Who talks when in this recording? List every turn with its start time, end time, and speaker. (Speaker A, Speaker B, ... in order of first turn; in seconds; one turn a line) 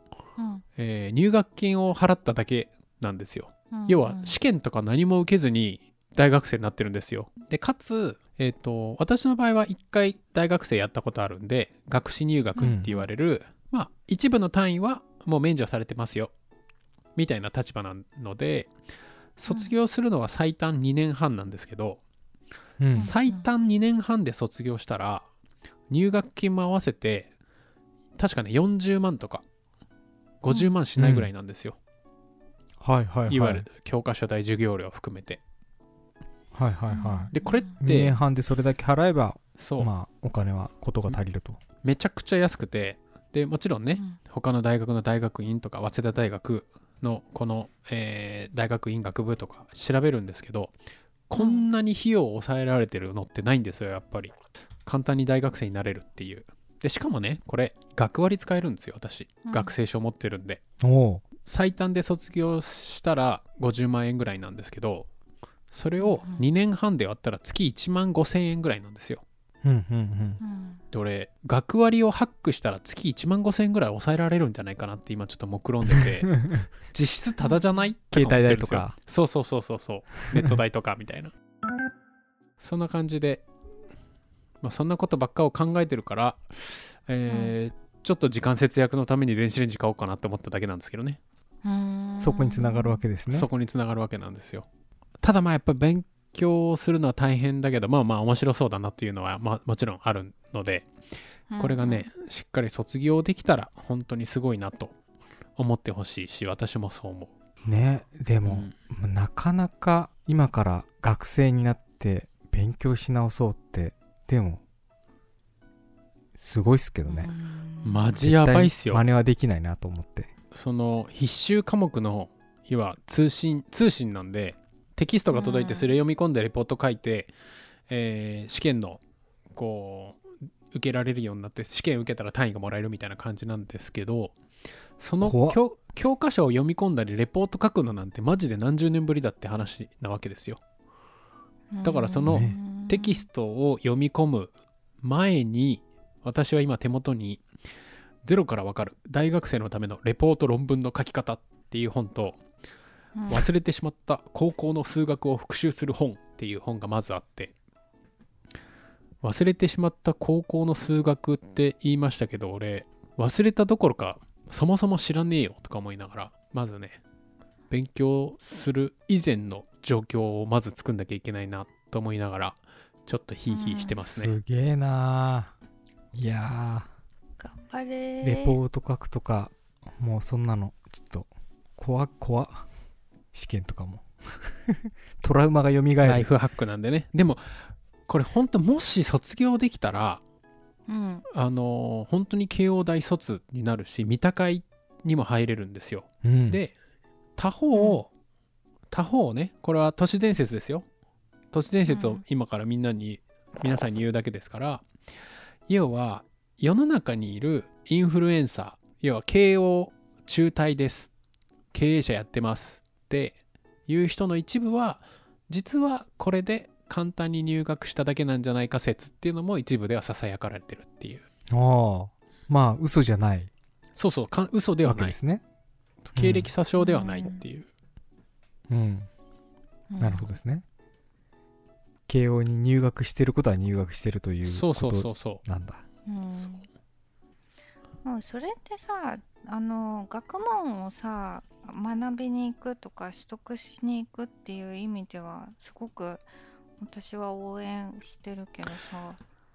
Speaker A: 0.4-0.6
Speaker B: 0.8-16.3
Speaker A: 3.7-4.3
Speaker C: 12.6-12.9
Speaker B: 17.1-18.7
Speaker B: 19.4-22.0
Speaker A: 19.5-19.7
Speaker C: 22.8-23.1
Speaker B: 22.9-25.2
Speaker A: 22.9-23.4
Speaker B: 25.9-27.3
Speaker B: 28.2-29.4
Speaker B: 30.4-31.8
Speaker C: 31.0-31.3
Speaker C: 32.8-33.6
Speaker B: 33.3-35.4
Speaker C: 36.5-37.3
Speaker A: 36.9-37.7
Speaker B: 37.3-38.1
Speaker C: 37.8-41.6
Speaker B: 39.6-39.9
Speaker B: 41.8-50.7
Speaker B: 51.3-54.3
Speaker A: 51.4-51.7
Speaker B: 54.9-60.6
Speaker A: 59.5-59.7
Speaker C: 60.8-61.2
Speaker B: 61.4-65.1
Speaker B: 65.7-69.2
Speaker A: 66.0-66.4
Speaker C: 69.6-70.4
Speaker A: 70.4-70.8
Speaker B: 70.9-81.3
Speaker A: 77.4-77.8
Speaker C: 78.1-79.0
Speaker B: 82.6-83.4
Speaker B: 84.6-91.2
Speaker A: 87.3-87.5
Speaker A: 91.6-93.0
Speaker C: 92.2-93.5
Speaker B: 93.3-94.7
Speaker B: 95.2-100.9
Speaker A: 101.5-102.1
Speaker B: 101.6-104.9
Speaker B: 105.6-107.3
Speaker C: 107.7-114.6
Speaker B: 108.4-108.7
Speaker C: 116.3-117.3
Speaker A: 117.1-118.0
Speaker B: 117.8-119.0
Speaker C: 118.1-120.3
Speaker B: 120.5-127.3
Speaker A: 125.3-125.9
Speaker B: 127.9-129.0
Speaker B: 129.5-130.2
Speaker B: 130.7-134.3
Speaker B: 135.0-140.6
Speaker C: 135.2-135.6
Speaker A: 141.7-143.2
Speaker B: 141.8-144.5
Speaker C: 142.3-142.5
Speaker B: 145.0-147.4
Speaker B: 148.2-152.4
Speaker A: 153.1-153.5
Speaker B: 153.3-157.5
Speaker B: 159.2-167.0
Speaker B: 167.7-174.3
Speaker A: 173.5-173.9
Speaker C: 174.0-175.5
Speaker C: 176.1-176.9
Speaker A: 177.4-178.6
Speaker C: 178.2-182.6
Speaker C: 183.3-186.3
Speaker B: 186.0-190.2
Speaker A: 190.9-191.2
Speaker B: 191.3-196.7
Speaker C: 196.2-196.6
Speaker B: 197.4-198.1
Speaker A: 197.7-198.0
Speaker B: 198.9-200.8
Speaker B: 201.5-204.8
Speaker A: 201.9-202.2
Speaker B: 205.7-211.1
Speaker B: 211.7-213.4
Speaker B: 213.9-221.2
Speaker C: 221.5-223.5
Speaker B: 223.9-225.2
Speaker C: 224.8-225.4
Speaker B: 226.1-227.7
Speaker C: 226.2-226.5
Speaker A: 226.8-227.4
Speaker C: 228.7-229.1
Speaker A: 229.9-230.3
Speaker C: 230.0-230.6
Speaker C: 232.1-235.8
Speaker B: 234.4-235.4
Speaker A: 236.1-236.7
Speaker A: 238.0-246.2
Speaker A: 246.8-249.2